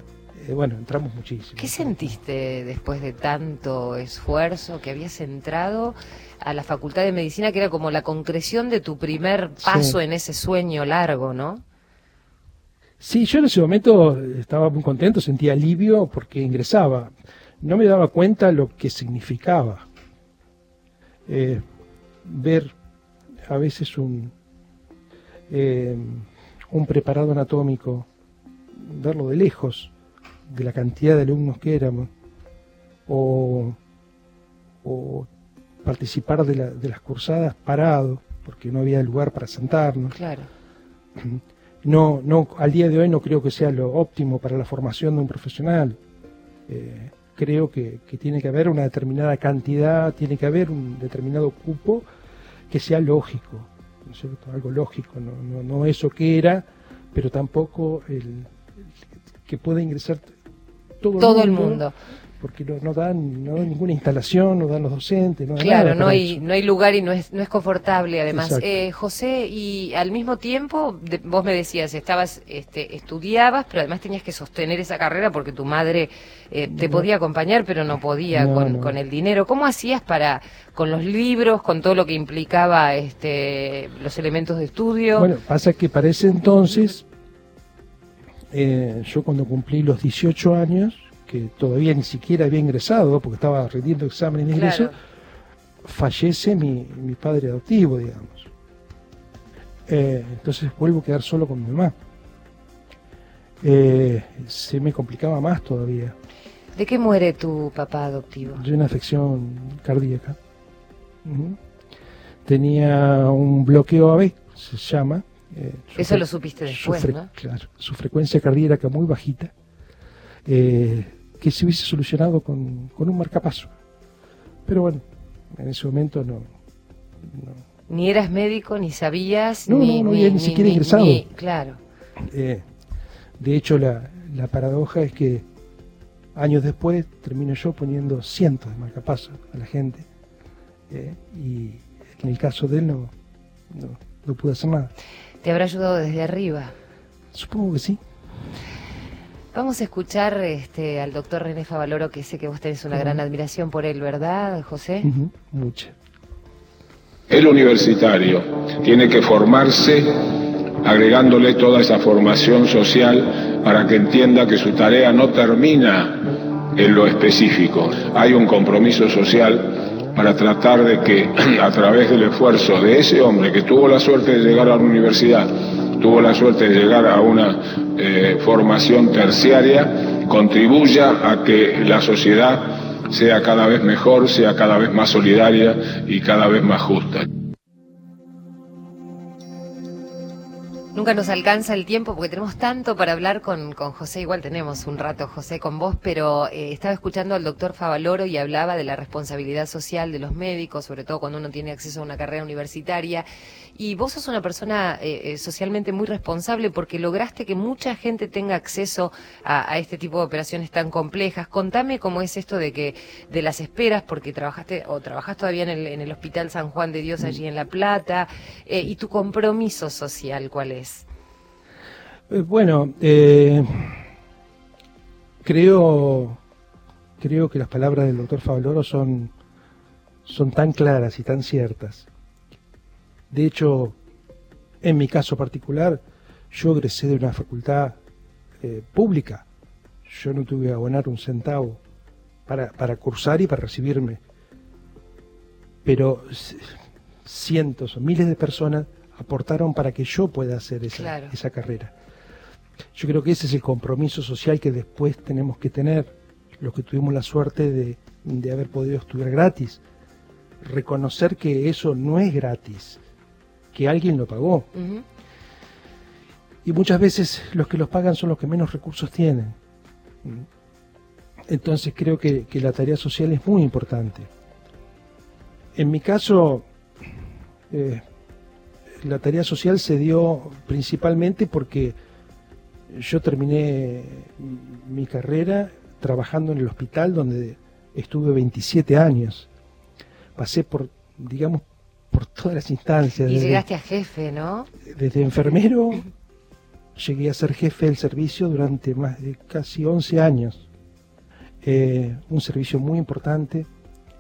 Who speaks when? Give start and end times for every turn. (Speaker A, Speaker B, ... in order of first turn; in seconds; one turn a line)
Speaker A: 0.3-2.2
Speaker B: 1.6-11.6
Speaker A: 9.6-10.0
Speaker A: 13.0-19.9
Speaker A: 21.3-21.6
Speaker A: 22.2-22.7
Speaker A: 23.5-24.3
Speaker A: 25.5-28.1
Speaker A: 28.7-29.9
Speaker A: 30.5-32.1
Speaker A: 33.1-33.8
Speaker A: 34.8-35.3
Speaker A: 35.8-40.2
Speaker B: 40.1-40.5
Speaker A: 41.2-46.0
Speaker A: 46.7-52.0
Speaker A: 52.7-58.9
Speaker A: 59.5-60.3
Speaker A: 61.0-61.8
Speaker B: 61.2-61.9
Speaker A: 62.4-66.4
Speaker B: 65.6-85.3
Speaker A: 68.3-68.7
Speaker A: 76.7-77.1
Speaker A: 78.3-79.0
Speaker A: 85.2-87.0
Speaker A: 88.5-94.9
Speaker B: 94.5-94.9
Speaker A: 95.8-98.5
Speaker A: 99.9-101.9
Speaker A: 103.6-106.2
Speaker B: 106.8-108.6
Speaker A: 108.5-110.4
Speaker A: 111.2-111.6
Speaker A: 112.5-119.5
Speaker B: 116.0-117.3
Speaker A: 120.5-123.7
Speaker A: 124.7-126.5
Speaker A: 127.2-127.6
Speaker B: 127.9-131.8
Speaker A: 129.7-131.2
Speaker A: 132.2-132.7
Speaker A: 133.4-135.5
Speaker A: 136.3-140.1
Speaker A: 140.9-143.1
Speaker A: 143.7-144.9
Speaker B: 145.4-146.7
Speaker A: 147.3-148.0
Speaker B: 149.5-155.1
Speaker A: 152.9-153.2
Speaker A: 155.0-155.9
Speaker C: 157.3-187.3
Speaker B: 190.9-221.1
Speaker A: 222.3-224.0
Speaker A: 225.4-226.4
Speaker A: 227.2-229.3
Speaker A: 230.2-232.1
Speaker A: 233.3-234.0
Speaker A: 234.8-238.0
Speaker A: 238.6-239.4
Speaker A: 240.1-241.8
Speaker A: 242.5-244.2
Speaker A: 245.8-251.9
Speaker B: 250.9-251.3
Speaker A: 252.9-259.8
Speaker A: 260.6-263.0
Speaker A: 263.7-264.7
Speaker B: 264.8-265.0
Speaker A: 266.6-269.6
Speaker A: 271.5-274.3
Speaker A: 275.8-276.7
Speaker A: 277.7-278.1
Speaker A: 279.0-282.0
Speaker A: 282.9-289.5
Speaker A: 290.4-293.6
Speaker B: 293.2-294.7
Speaker A: 294.9-296.1
Speaker A: 297.0-300.6
Speaker A: 301.6-303.7